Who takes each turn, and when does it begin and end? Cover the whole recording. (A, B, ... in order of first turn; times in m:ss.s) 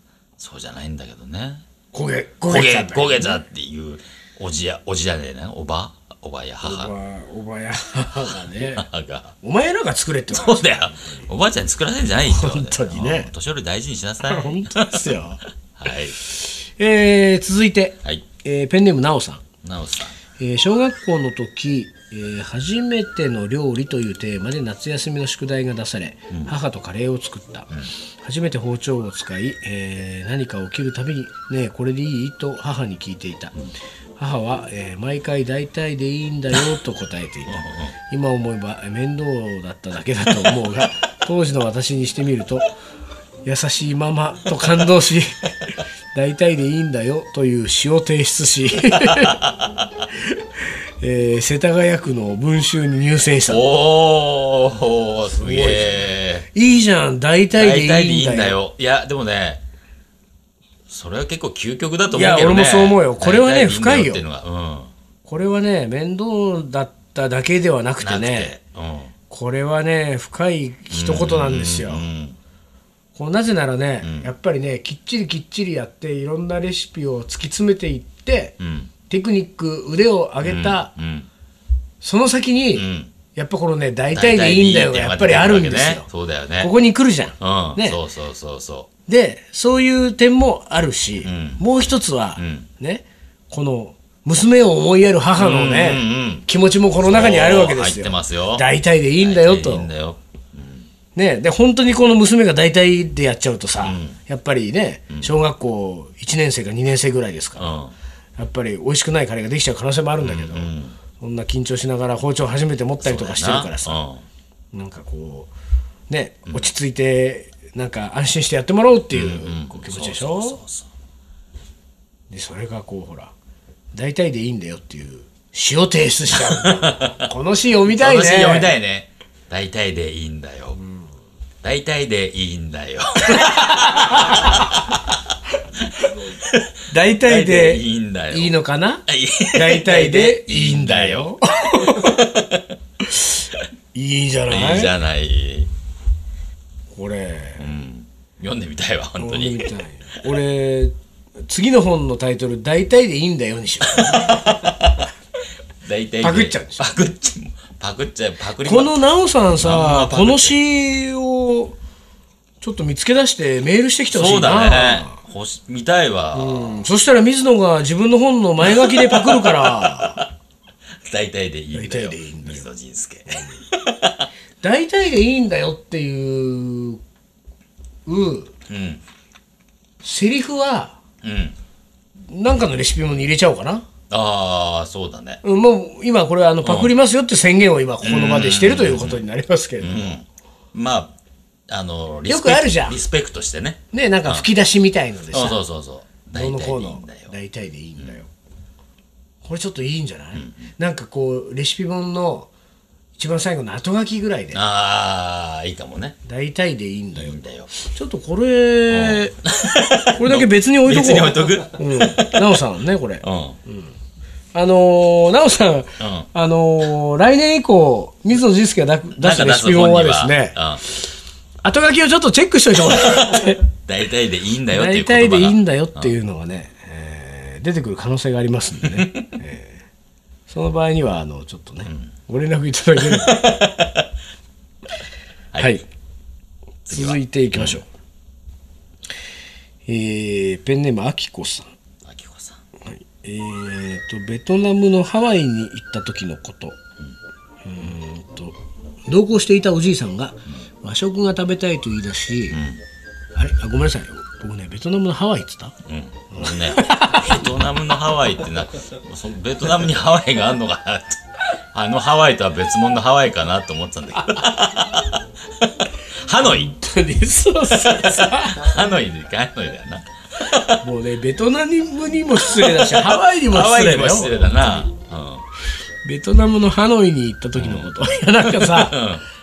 0:00.4-0:01.6 A
0:01.9-0:03.4 B
0:02.5-0:06.9 A
0:06.6-0:08.9 B
0:08.6-0:09.4 A
0:09.4-0:11.3 B
0:10.3-0:15.2 A
0:12.3-0:13.3 B
0:14.3-0:15.4 B
0:15.8-0:16.2 A
0:16.2-0:19.4 B
0:19.6-0:20.2 A
0:20.4-0:27.7 B
0:28.2-0:33.6 B
0:34.2-0:42.7 B
0:37.5-0:37.9 A
0:43.4-0:49.4 B
0:49.0-0:49.9 A
0:50.2-0:50.4 B
0:51.0-0:53.6 B
0:53.5-0:56.5 A
0:55.3-0:58.6 B
0:57.6-0:59.6 A
1:00.9-1:04.9 A
1:02.1-1:04.2 B
1:05.2-1:08.5 B
1:08.0-1:09.1 A
1:09.3-1:12.1 B
1:10.9-1:12.4 A
1:13.2-1:18.6 B
1:14.0-1:14.3 A
1:18.6-1:18.9 A
1:19.1-1:20.9 B
1:20.4-1:21.3 A
1:22.0-1:26.1 B
1:22.7-1:23.1 A
1:24.1-1:26.7 A
1:26.6-1:28.0 B
1:27.4-1:28.9 A
1:29.1-1:39.9 B
1:31.2-1:31.6 A
1:32.4-1:32.7 A
1:35.4-1:36.4 A
1:37.0-1:38.7 A
1:39.2-1:40.9 A
1:41.2-1:47.7 B
1:43.8-1:44.2 A
1:47.6-1:47.9 A
1:48.4-1:54.0 B
1:50.2-1:51.0 A
1:53.0-1:54.2 A
1:54.7-1:55.5 B
1:56.1-2:00.6 B
1:59.1-2:00.9 A
2:02.3-2:03.3 B
2:03.9-2:08.8 B
2:06.3-2:07.3 A
2:07.9-2:10.8 A
2:11.6-2:15.2 A
2:13.3-2:14.8 B
2:15.9-2:22.7 A
2:16.9-2:22.3 B
2:23.1-2:23.4 B
2:23.9-2:24.9 B
2:24.5-2:25.7 A
2:26.9-2:27.6 B
2:27.6-2:29.7 A
2:29.2-2:34.6 B
2:34.0-2:35.1 A
2:35.8-2:40.6 A
2:36.2-2:36.9 B
2:38.6-2:41.8 B
2:42.6-2:45.2 B
2:44.1-2:46.8 A
2:46.3-2:50.2 B
2:48.6-2:50.3 A
2:51.0-2:54.3 A
2:51.7-2:52.6 B
2:53.3-2:53.6 B
2:54.6-2:57.0 B
2:58.1-2:58.5 B
2:58.7-2:59.0 A
3:00.0-3:01.0 B
3:01.2-3:01.6 A
3:02.3-3:03.8 B
3:04.1-3:05.4 A
3:05.4-3:10.2 B
3:06.6-3:06.9 A
3:08.0-3:09.2 A
3:09.8-3:11.2 A
3:11.7-3:14.5 A
3:12.3-3:13.0 B
3:13.9-3:15.6 B
3:15.3-3:17.3 A
3:16.3-3:18.3 B
3:19.4-3:22.5 B
3:23.2-3:24.6 B
3:24.5-3:26.2 A
3:26.2-3:29.4 B
3:27.2-3:27.7 A
3:28.9-3:32.6 A
3:30.2-3:33.9 B
3:33.2-3:33.6 A
3:34.5-3:40.6 B
3:36.0-3:36.3 A
3:39.2-3:40.8 A
3:41.6-3:43.6 B
3:43.0-3:46.1 A
3:44.7-3:49.8 B
3:48.9-3:49.2 A
3:50.5-3:53.5 B
3:53.0-3:54.1 A
3:55.5-3:55.8 A
3:55.6-3:55.8 B
3:56.9-3:57.8 A
3:56.9-3:57.9 B
3:59.9-4:01.7 B
4:02.0-4:02.6 A
4:02.9-4:06.8 B
4:07.6-4:12.6 B
4:12.5-4:12.8 A
4:13.4-4:15.8 B
4:15.9-4:21.2 A
4:16.3-4:17.4 B
4:21.7-4:26.7 A
4:26.4-4:28.7 B
4:27.7-4:30.8 A
4:30.8-4:34.8 B
4:32.4-4:35.4 A
4:36.0-4:39.0 B
4:37.6-4:39.2 A